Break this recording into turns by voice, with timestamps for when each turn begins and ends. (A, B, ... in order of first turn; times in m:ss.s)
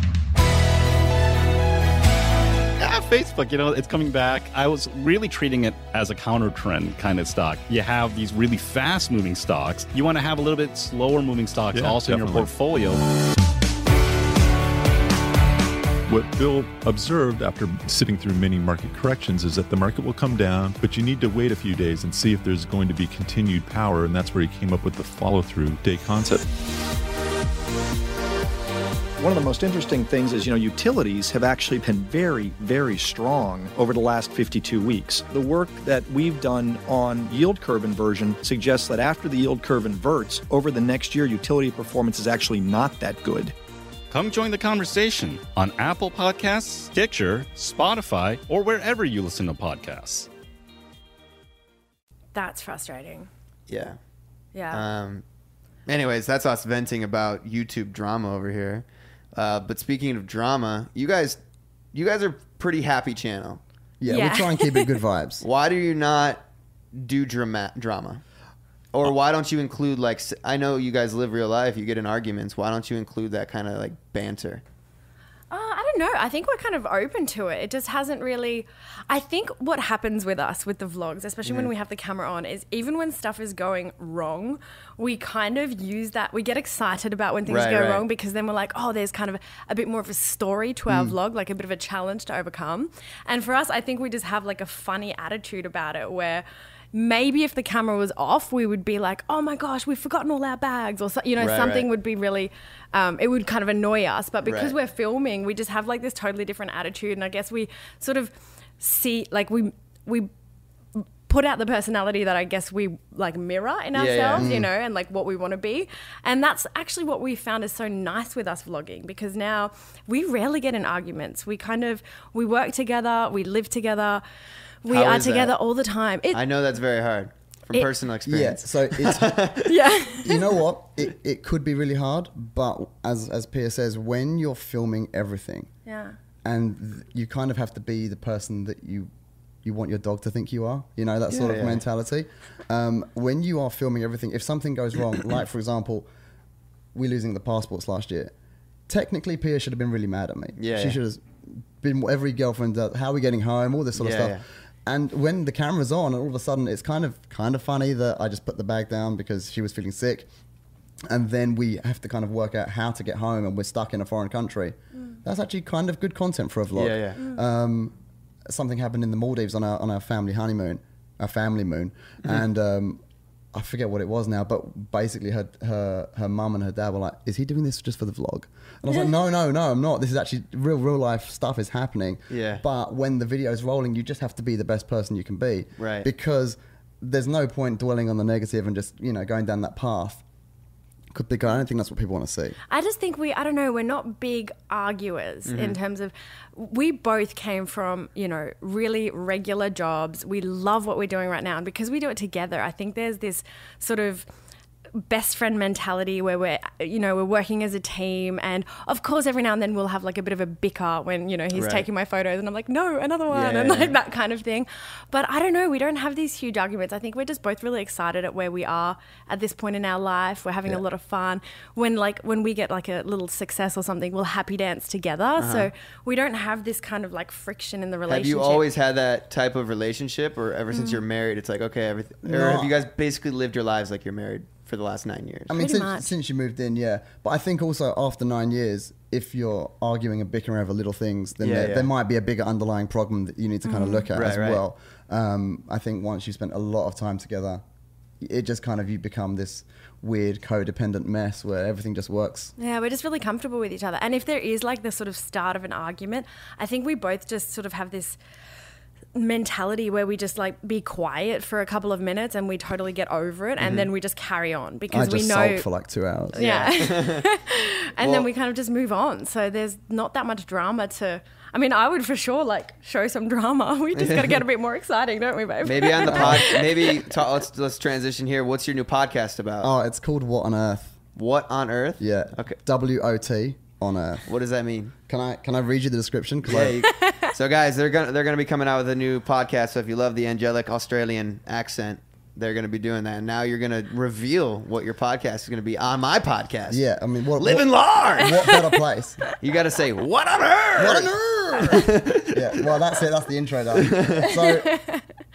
0:02.8-0:13.0 A
0:11.7-0:12.5 B
0:16.1-0:26.4 B
0:29.2-0:43.5 C
0:44.1-0:50.3 A
0:52.3-0:53.3 D
0:53.7-0:54.0 E
0:54.5-0:54.8 D
0:54.7-0:55.2 E
0:55.9-1:01.4 E
1:01.9-1:03.6 E
1:04.0-1:05.4 F
1:04.1-1:04.9 D
1:05.4-1:06.4 E
1:06.9-1:08.2 E
1:08.9-1:14.6 E
1:15.5-1:50.3 D
1:21.4-1:21.7 E
1:27.5-1:28.0 E
1:30.9-1:31.1 F
1:41.4-1:41.9 E
1:44.4-1:44.7 E
1:51.0-2:04.2 D
1:53.9-1:54.5 E
1:54.4-1:54.7 F
2:04.8-2:06.4 D
2:04.9-2:05.5 E
2:06.3-2:09.7 E
2:08.2-2:09.4 F
2:09.6-2:10.4 D
2:10.2-2:15.7 F
2:15.8-2:16.2 D
2:16.4-2:19.1 F
2:19.6-2:26.1 F
2:21.3-2:21.8 E
2:26.9-2:28.3 F
2:28.9-2:40.3 F
2:30.6-2:31.0 E
2:34.0-2:34.4 E
2:41.1-2:47.9 F
2:46.7-2:47.2 E
2:48.5-2:53.0 F
2:53.5-3:10.2 F
3:02.3-3:02.6 E
3:05.8-3:06.1 E
3:11.1-3:12.6 F
3:12.7-3:24.2 D
3:15.5-3:15.8 E
3:25.0-3:48.6 D
3:31.5-3:31.8 E
3:33.3-3:33.9 E
3:45.4-3:45.7 E
3:48.1-3:55.5 E
3:50.7-3:51.0 D
3:52.2-3:52.7 F
3:55.5-4:07.6 F
3:55.5-3:56.1 D
4:01.4-4:01.9 E
4:03.6-4:04.1 D
4:04.1-4:04.6 E
4:08.2-4:12.5 F
4:12.6-4:18.2 D
4:19.1-4:25.6 D
4:23.6-4:23.9 E
4:24.9-4:26.4 F
4:26.3-4:37.0 D
4:26.3-4:27.3 E
4:28.0-4:28.3 E
4:33.9-4:34.4 E
4:35.6-4:39.7 E
4:36.0-4:36.5 F
4:39.6-4:40.9 F
4:41.2-4:42.6 E
4:42.0-4:44.3 F
4:44.3-4:44.9 E
4:45.1-4:46.8 F
4:46.4-4:56.8 E
4:47.0-4:47.3 D
4:56.7-4:59.2 F
4:57.4-4:58.5 E
4:59.4-5:02.8 E
5:00.8-5:04.8 F
5:03.7-5:04.3 E
5:04.7-5:05.0 D